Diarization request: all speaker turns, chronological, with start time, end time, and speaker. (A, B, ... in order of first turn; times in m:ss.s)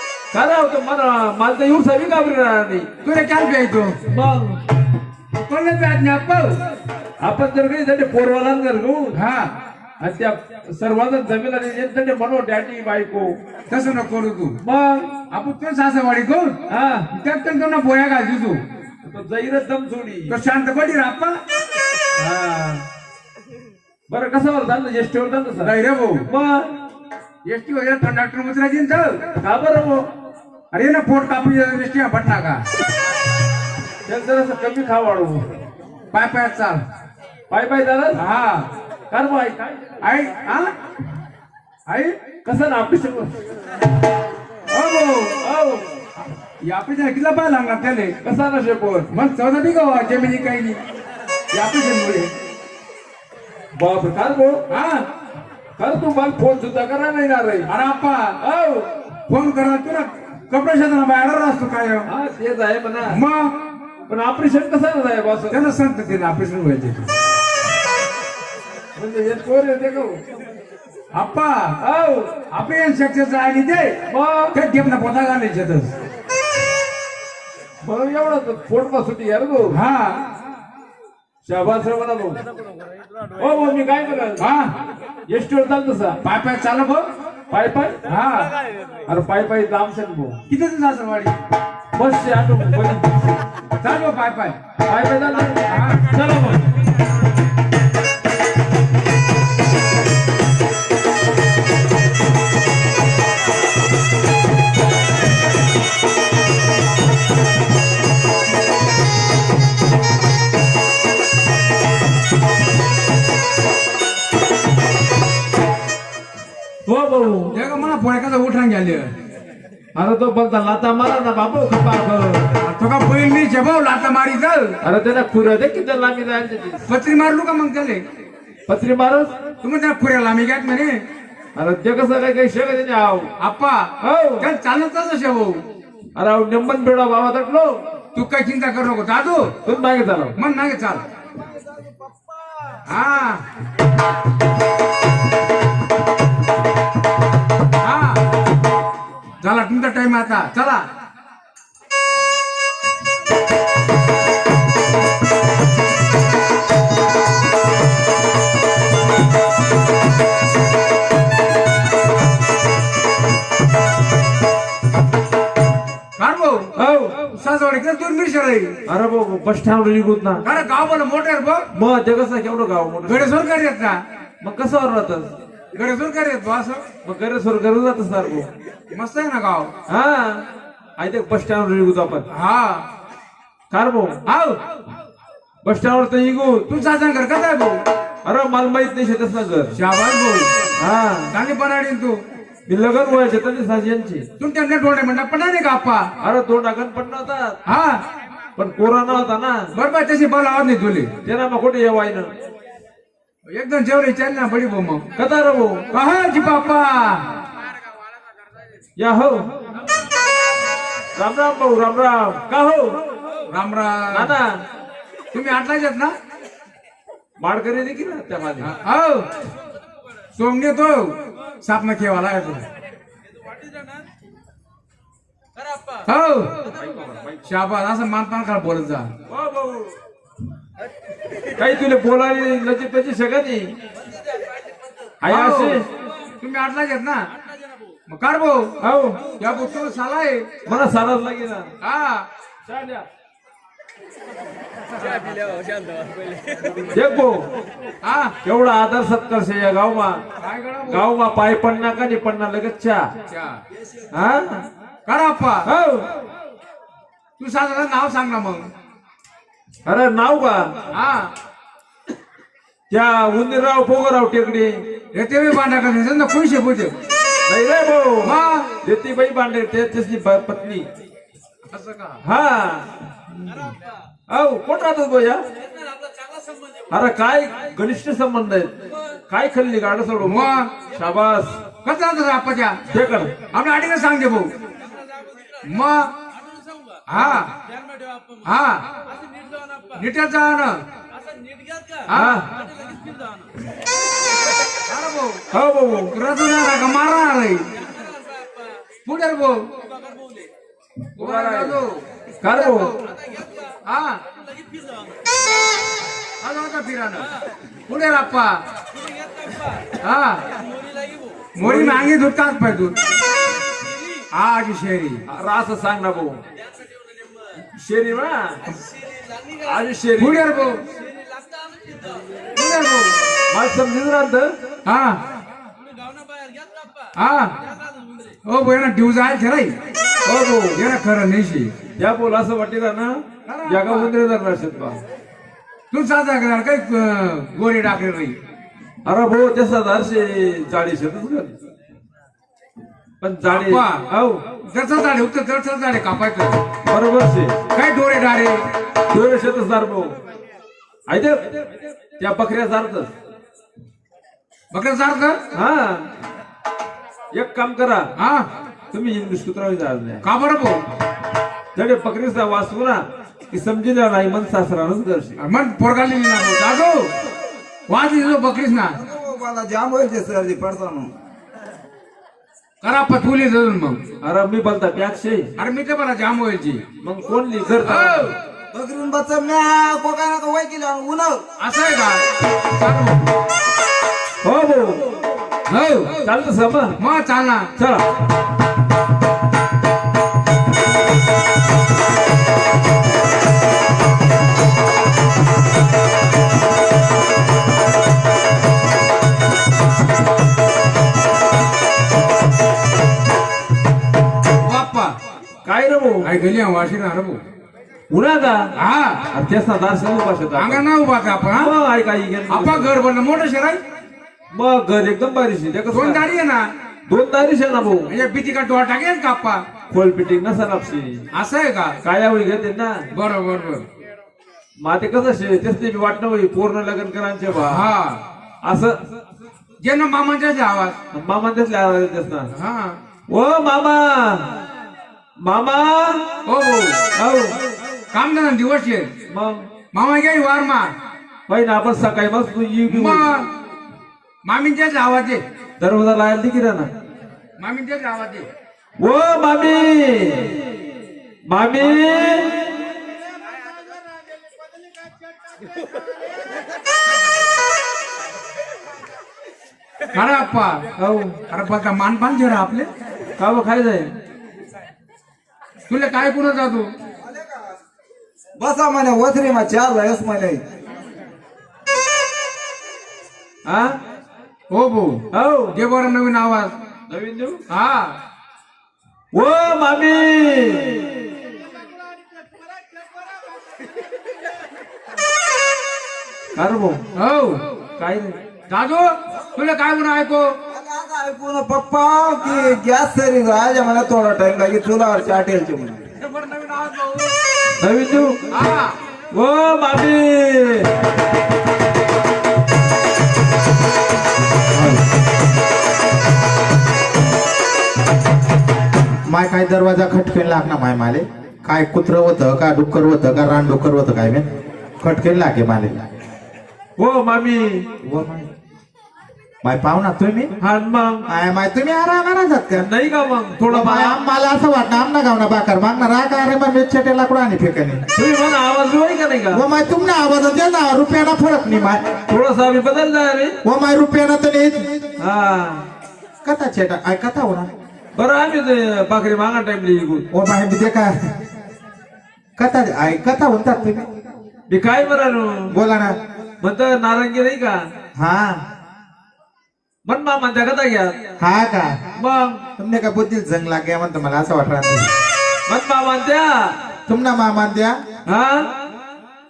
0:00.3-0:02.9 A
0:03.0-0:03.9 B
0:04.1-0:04.6 A
0:05.3-0:06.6 B
0:07.2-0:09.2 A
0:09.1-0:09.5 B
0:10.0-0:13.3 A
0:13.7-0:14.6 B
0:14.6-0:15.1 A
0:15.3-0:16.6 B
0:16.7-0:17.1 A
0:17.1-0:18.6 B
0:19.0-0:20.4 A
0:20.3-0:21.4 B
0:22.2-0:22.8 A
0:24.1-0:25.7 A
0:25.6-0:26.3 B
0:26.3-0:26.7 A
0:27.5-0:29.2 B
0:29.4-0:30.1 A
0:30.7-0:32.6 B
0:34.1-0:35.4 A
0:36.1-0:36.8 B
0:37.5-0:38.2 A
0:38.2-0:38.7 B
0:39.1-0:40.1 A
0:40.0-0:40.7 B
0:41.9-0:42.2 B
0:42.4-0:43.4 A
0:44.7-0:45.4 B
0:45.4-0:45.8 A
0:46.7-0:48.2 B
0:48.2-0:49.1 A
0:49.1-0:50.8 B
0:51.5-0:52.3 B
0:53.8-0:54.6 A
0:54.7-0:55.1 B
0:55.8-0:57.7 A
0:57.7-0:58.4 B
0:58.4-0:58.9 A
0:59.3-1:02.1 B
1:02.1-1:03.2 A
1:03.1-1:03.5 B
1:04.1-1:05.6 A
1:05.5-1:07.1 B
1:09.0-1:10.2 A
1:11.2-1:11.8 B
1:11.8-1:12.3 A
1:12.5-1:14.0 B
1:14.1-1:14.6 A
1:14.5-1:15.9 B
1:17.8-1:19.8 A
1:19.7-1:20.2 B
1:21.4-1:22.4 A
1:23.4-1:24.4 A
1:24.4-1:24.7 B
1:25.3-1:26.2 A
1:26.2-1:27.1 B
1:27.5-1:28.0 A
1:28.1-1:28.5 B
1:29.1-1:30.4 A
1:30.5-1:31.3 B
1:32.0-1:33.4 A
1:33.8-1:34.6 B
1:34.9-1:36.7 A
1:35.7-1:36.1 B
1:56.9-1:57.5 A
1:57.5-1:59.1 B
2:00.0-2:02.5 A
2:02.6-2:04.8 B
2:04.8-2:06.8 A
2:06.9-2:08.0 B
2:08.7-2:09.3 A
2:09.6-2:11.0 B
2:11.6-2:13.3 A
2:13.4-2:15.6 B
2:14.0-2:14.5 A
2:16.2-2:17.7 A
2:18.2-2:19.5 B
2:19.6-2:20.4 A
2:20.4-2:21.0 B
2:22.9-2:23.4 B
2:27.8-2:28.2 B
2:29.4-2:30.8 B
2:46.2-2:46.7 B
2:46.8-2:47.2 A
2:47.3-2:48.7 B
2:48.9-2:50.4 A
2:50.4-2:51.7 B
2:51.7-2:53.3 A
2:53.1-2:54.0 B
2:54.4-2:55.3 A
2:55.8-2:56.8 B
2:57.0-2:58.5 A
2:58.9-2:59.7 B
2:59.9-3:00.4 A
3:01.0-3:02.3 A
3:02.3-3:02.8 B
3:03.7-3:04.2 A
3:04.3-3:04.6 B
3:05.6-3:06.6 A
3:06.7-3:07.8 B
3:08.2-3:09.8 A
3:09.7-3:10.5 B
3:10.8-3:11.3 A
3:11.3-3:12.2 B
3:12.7-3:14.3 A
3:14.4-3:16.1 B
3:16.2-3:17.6 A
3:17.7-3:18.0 B
3:18.6-3:19.7 A
3:19.8-3:21.1 B
3:21.2-3:22.3 A
3:23.5-3:25.0 B
3:25.2-3:25.8 A
3:25.9-3:27.3 B
3:29.0-3:29.5 A
3:31.2-3:33.0 A
3:33.5-3:34.4 B
3:34.1-3:34.6 A
3:35.3-3:36.1 B
3:37.4-3:38.7 A
3:38.6-3:39.3 B
3:40.4-3:42.7 B
3:46.1-3:46.5 B
3:46.7-3:47.4 A
3:47.5-3:49.1 B
3:49.3-3:49.9 A
3:51.6-3:53.7 A
3:55.2-3:55.8 A
3:55.3-3:55.8 B
3:56.4-3:57.2 B
3:58.1-3:58.7 B
3:58.8-3:59.2 A
3:59.4-4:00.5 B
4:00.7-4:01.7 A
4:01.8-4:02.3 B
4:02.6-4:03.0 A
4:05.0-4:05.5 B
4:06.9-4:07.5 A
4:08.0-4:08.4 B
4:08.4-4:10.2 A
4:10.4-4:11.1 B
4:10.9-4:13.0 A
4:13.3-4:13.6 B
4:14.1-4:14.6 A
4:15.1-4:15.7 B
4:15.7-4:16.1 A
4:17.4-4:18.7 B
4:19.9-4:20.7 A
4:20.9-4:21.3 B
4:22.9-4:24.8 A
4:25.1-4:26.9 B
4:27.5-4:30.9 A
4:28.2-4:28.7 B
4:31.7-4:32.2 B
4:32.2-4:32.9 A
4:34.3-4:35.4 A
4:36.9-4:41.6 A
4:40.2-4:40.7 B
4:41.8-4:42.8 B
4:42.9-4:43.3 A
4:43.5-4:44.5 B
4:45.7-4:46.1 B
4:47.1-4:47.5 B
4:48.4-4:48.8 B
4:50.0-4:50.7 B
4:52.1-4:52.4 B
4:52.1-4:52.5 A
4:54.9-4:55.4 B
4:55.5-4:56.1 A
4:56.1-4:57.6 B
4:59.0-4:59.6 B
5:01.2-5:02.9 B
5:01.2-5:01.8 A
5:02.4-5:02.9 A
5:03.7-5:04.2 B
5:06.4-5:07.3 B
5:07.9-5:08.6 B
5:10.0-5:10.4 B
5:11.6-5:13.0 B
5:11.6-5:12.1 A
5:14.3-5:15.2 B
5:15.3-5:16.4 A
5:17.7-5:18.6 A
5:19.4-5:20.4 A
5:20.2-5:20.8 B
5:22.6-5:23.1 B
5:23.5-5:24.5 A
5:24.9-5:25.2 B
5:27.2-5:27.5 B
5:28.5-5:29.7 B
5:30.2-5:30.8 A
5:30.8-5:31.7 B
5:32.0-5:35.0 A
5:33.5-5:34.2 B
5:35.9-5:38.4 B
5:39.0-5:41.5 A
5:43.2-5:44.4 A
5:43.5-5:44.0 B
5:44.7-5:46.6 B
5:46.9-5:47.6 A
5:47.7-5:48.6 B
5:49.1-5:50.2 A
5:51.1-5:51.6 A
5:52.2-5:53.1 A
5:54.7-5:55.4 B
5:55.5-5:56.1 A
5:57.3-5:58.1 A
5:58.2-5:58.5 B
5:58.9-6:00.2 A
6:00.2-6:00.8 B
6:01.8-6:05.4 A
6:05.4-6:07.1 B
6:07.9-6:09.0 B
6:09.0-6:11.1 C
6:12.8-6:14.0 B
6:14.2-6:15.5 A
6:15.6-6:16.8 B
6:17.0-6:18.3 A
6:17.8-6:18.3 B
6:18.7-6:21.4 C
6:21.6-6:23.2 B
6:24.4-6:25.0 A
6:25.7-6:26.3 B
6:26.2-6:27.0 A
6:27.0-6:27.7 B
6:27.8-6:28.1 A
6:44.6-6:45.1 B
6:45.6-6:46.3 A
6:46.2-6:47.4 B
6:48.1-6:48.6 A
6:48.8-6:49.3 B
6:49.3-6:50.8 A
6:50.6-6:51.7 B
6:51.5-6:52.9 A
6:52.5-6:53.8 B
6:54.5-6:56.3 A
6:55.9-6:56.7 B
6:57.1-6:58.1 A
6:58.1-6:59.6 B
6:59.9-7:01.2 A
7:01.3-7:02.0 B
7:02.0-7:03.0 A
7:03.1-7:03.8 B
7:04.8-7:07.8 A
7:07.6-7:08.2 B
7:08.6-7:09.0 A
7:09.8-7:11.0 B
7:11.1-7:12.5 A
7:12.5-7:13.0 B
7:13.3-7:14.5 A
7:15.4-7:16.3 A
7:16.5-7:17.0 B
7:17.2-7:17.6 A
7:18.1-7:19.1 B
7:19.3-7:19.7 A
7:19.9-7:20.9 B
7:21.5-7:23.2 A
7:22.9-7:23.5 B
7:24.4-7:25.4 B
7:25.8-7:26.9 A
7:27.6-7:28.5 B
7:29.0-7:30.6 A
7:31.5-7:32.8 A
7:40.1-7:40.9 B
7:41.0-7:41.4 A
7:41.5-7:42.9 B
7:43.4-7:44.1 A
7:45.9-7:46.9 B
7:47.3-7:47.6 C
7:48.6-7:50.6 C
7:53.7-7:54.0 A
7:54.7-7:55.2 B
7:55.3-7:55.8 A
7:55.7-7:56.7 B
7:57.1-7:57.6 A
7:57.7-7:58.2 B
7:59.3-8:01.1 A
8:06.6-8:07.0 A
8:07.2-8:07.6 B
8:08.0-8:08.4 A
8:08.7-8:10.5 B
8:10.7-8:16.0 C
8:16.2-8:17.3 B
8:17.8-8:18.4 A
8:18.5-8:19.0 B
8:19.3-8:20.9 A
8:29.3-8:34.5 D
8:35.0-8:35.9 D
8:37.0-8:37.9 A
8:38.0-8:38.5 D
8:39.6-8:40.6 D
8:40.6-8:41.2 A
8:41.3-8:42.9 D
8:42.8-8:44.2 A
8:43.7-8:48.0 D
8:48.2-8:49.6 A
8:49.5-8:52.0 D
8:52.3-8:53.6 A
8:53.6-8:54.9 D
8:55.2-8:55.8 A
8:56.4-8:57.7 D
8:58.2-9:00.2 A
9:00.3-9:01.1 D
9:02.6-9:04.1 D
9:04.7-9:05.8 A
9:05.7-9:06.1 D
9:06.6-9:07.8 A
9:08.2-9:08.6 D
9:10.1-9:11.1 A
9:11.4-9:12.0 D
9:12.2-9:12.6 A
9:12.8-9:15.1 D
9:15.7-9:16.8 A
9:17.1-9:17.9 D
9:18.3-9:18.7 A